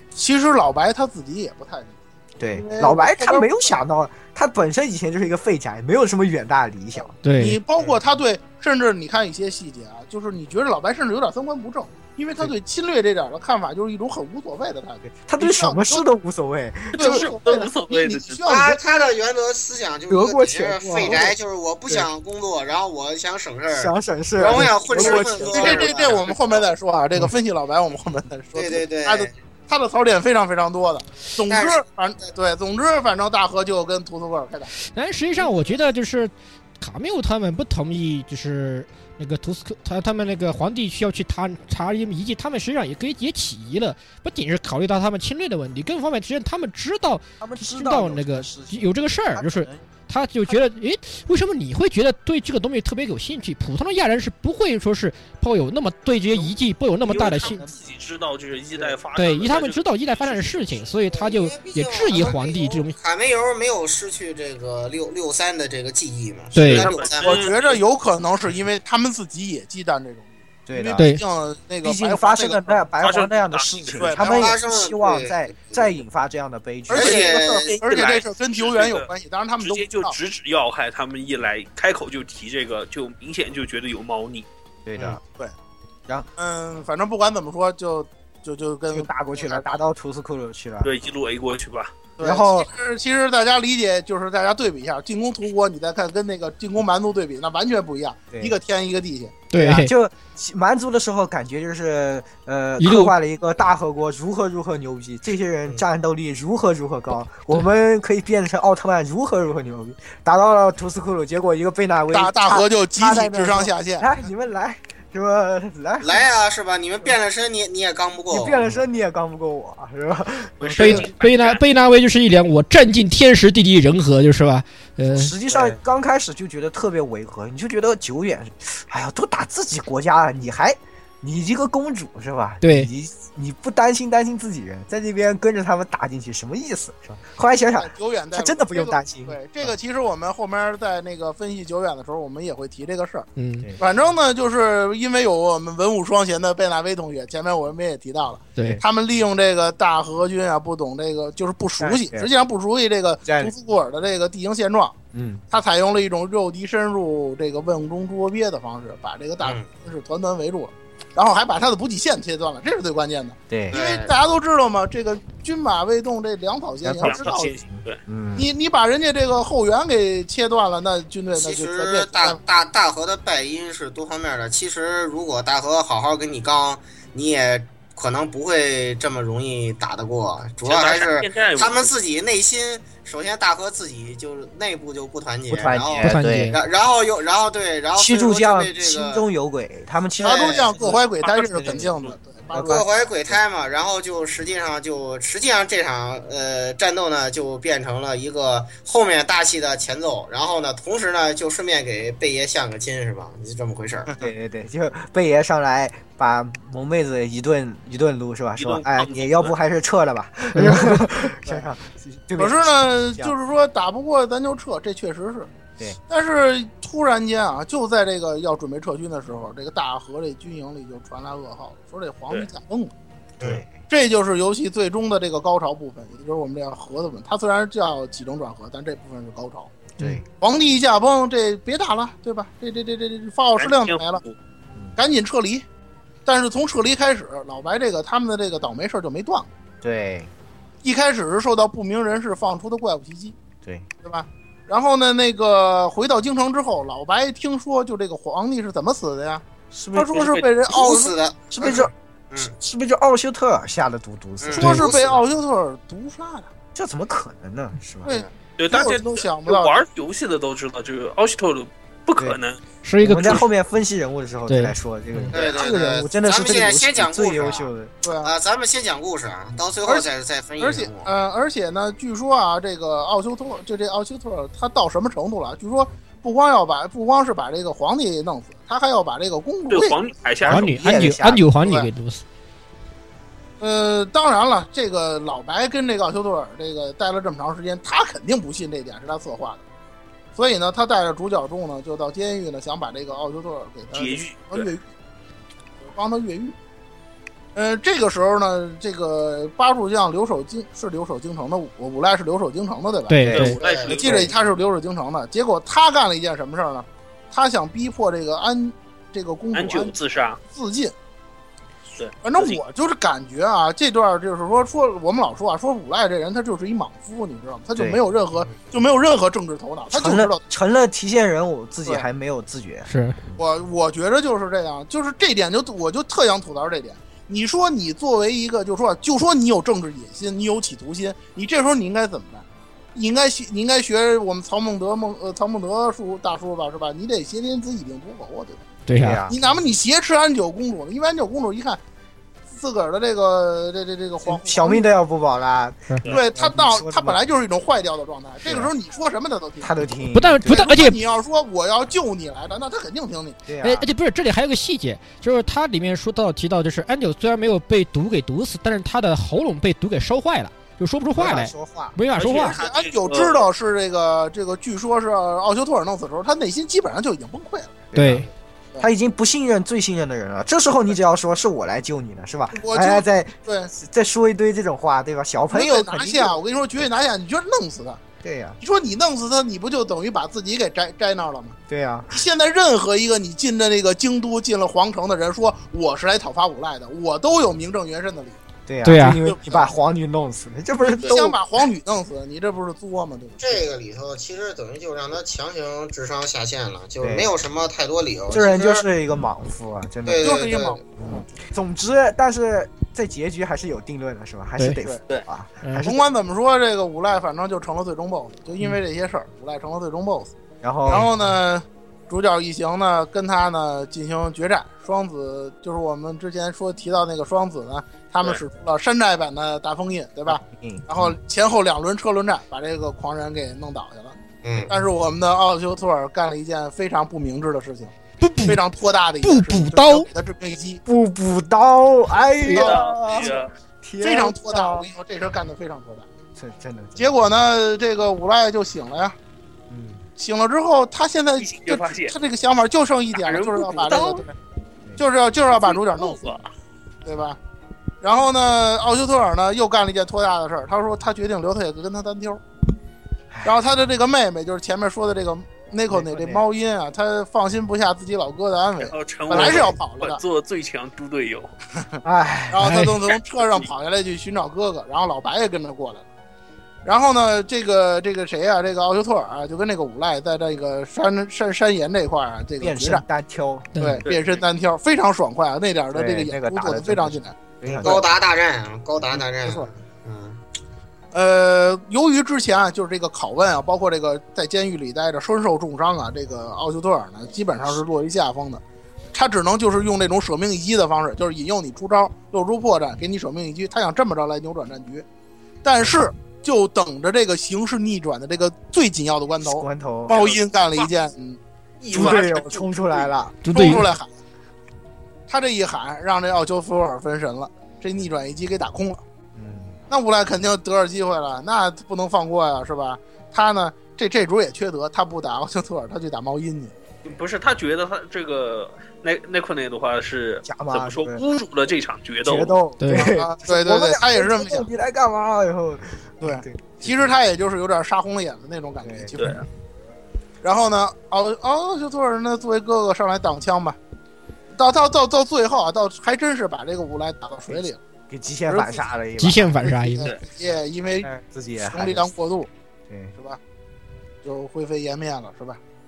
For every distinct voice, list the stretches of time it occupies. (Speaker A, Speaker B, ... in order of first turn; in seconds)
Speaker A: 0.1-2.0, 2.5-3.8, 7.0-16.0, 16.9-18.8, 21.0-21.3, 24.4-34.7, 67.2-72.8, 74.0-74.4, 76.9-80.2, 86.4-89.8, 92.2-99.4, 112.1-114.1, 137.7-143.3, 143.8-154.9, 155.5-167.5, 168.3-172.4, 190.2-192.8, 212.4-215.5, 216.1-222.9, 223.9-234.2, 235.0-235.6, 236.2-239.5, 240.8-243.3, 244.0-249.4, 249.9-251.1, 254.6-256.5, 258.0-259.9, 268.0-268.3, 270.6-280.0, 281.6-281.9, 283.6-289.6, 290.4-294.8, 295.8-296.5, 297.5-310.9, 312.2-320.4, 323.4-341.8, 342.5-344.8, 346.1-353.4, 362.4-367.8, 372.5-373.7, 375.5-378.0, 378.6-381.6, 382.1-388.4, 389.2-389.7, 390.8-393.6, 400.2-401.2, 405.8-410.3, 410.9-424.2, 424.7-427.9, 428.4-430.8, 432.4-433.4, 434.0-436.1, 437.0-439.1, 440.2-444.3, 445.0-446.3, 447.0-447.4, 448.0-452.4, 453.4-460.2, 462.5-466.0, 466.8-473.0, 473.8-478.0, 481.1-488.6, 489.1-495.0, 495.6-502.7, 503.5-504.1, 505.3-509.0, 509.9-516.7, 522.9-524.7, 526.2-529.4, 530.4-533.8, 534.5-537.8, 538.5-538.9, 539.6-541.1, 541.6-542.5, 544.2-545.6
Speaker B: 2.4-7.1, 15.1-17.2, 20.1-21.3, 23.7-25.9, 47.4-49.9, 57.2-57.8, 70.7-71.1, 71.8-77.2, 84.8-85.2, 88.9-90.9, 92.2-92.7, 99.5-116.2, 118.3-121.1, 125.1-139.7, 151.8-152.3, 153.2-153.5, 155.1-155.4, 163.5-163.8, 166.8-168.5, 185.5-186.5, 187.9-191.0, 192.6-192.8, 204.1-213.3, 223.4-223.7, 230.0-230.2, 239.8-240.3, 249.7-250.2, 251.5-251.9, 252.4-254.8, 256.7-258.1, 263.0-267.9, 280.5-281.5, 303.2-303.5, 319.9-322.9, 338.9-339.4, 344.2-347.2, 348.4-348.7, 349.6-350.7, 353.5-353.9, 361.1-361.9, 367.9-368.2, 368.8-376.4, 378.2-378.6, 381.7-382.2, 388.7-391.4, 397.0-397.3, 398.3-400.4, 401.1-406.0, 410.6-411.1, 420.3-421.1, 430.9-434.9, 436.4-437.1, 439.7-440.0, 453.3-453.6, 455.9-456.4, 459.3-459.7, 462.0-462.9, 472.6-473.7, 475.9-478.1, 499.4-500.3, 501.9-503.4, 509.3-509.8, 520.4-521.2, 522.2-527.1, 528.8-529.1, 537.5-539.8, 541.0-542.1, 542.9-543.1
Speaker C: 7.2-7.6, 34.9-57.7, 59.1-62.9, 66.5-66.9, 71.0-71.2, 99.5-99.9, 102.8-103.1, 120.8-125.3, 132.6-132.9, 143.3-143.7, 186.0-186.6, 262.8-263.4, 264.5-265.4, 280.5-282.2, 303.1-303.6, 322.9-323.2, 338.9-339.2, 350.1-351.0, 353.6-362.6, 367.9-368.2, 388.8-389.2, 405.6-405.9, 428.2-428.6, 429.2-430.1, 473.7-474.0, 503.4-503.8, 522.8-523.1, 539.2-540.1
Speaker D: 16.9-18.4, 57.0-60.8, 66.6-67.8, 73.0-74.2, 77.0-79.0, 79.6-84.5, 90.8-91.9, 120.6-121.6, 167.0-168.0, 180.6-181.9, 190.9-192.1, 208.6-209.5, 233.6-234.3, 250.1-250.4, 258.6-262.6, 279.7-280.7, 293.9-294.7, 303.3-304.3, 309.5-310.4, 311.9-312.6, 362.1-363.5, 432.4-433.5, 441.4-442.1, 443.1-444.3, 445.6-446.5, 458.8-461.5, 474.1-474.4, 500.1-500.4, 501.8-502.6, 517.0-522.6, 529.2-529.4
Speaker E: 18.4-26.7, 28.5-29.3, 31.5-31.8, 61.0-67.5, 74.2-76.0, 76.9-77.6, 116.0-118.8, 125.5-125.8, 159.4-159.7, 163.7-164.1, 171.3-189.2, 190.2-190.7, 192.5-204.1, 250.7-252.5, 254.4-255.2, 265.3-267.7, 268.2-271.1, 303.6-304.2, 393.4-398.8, 400.1-400.8, 424.4-424.8, 477.7-480.4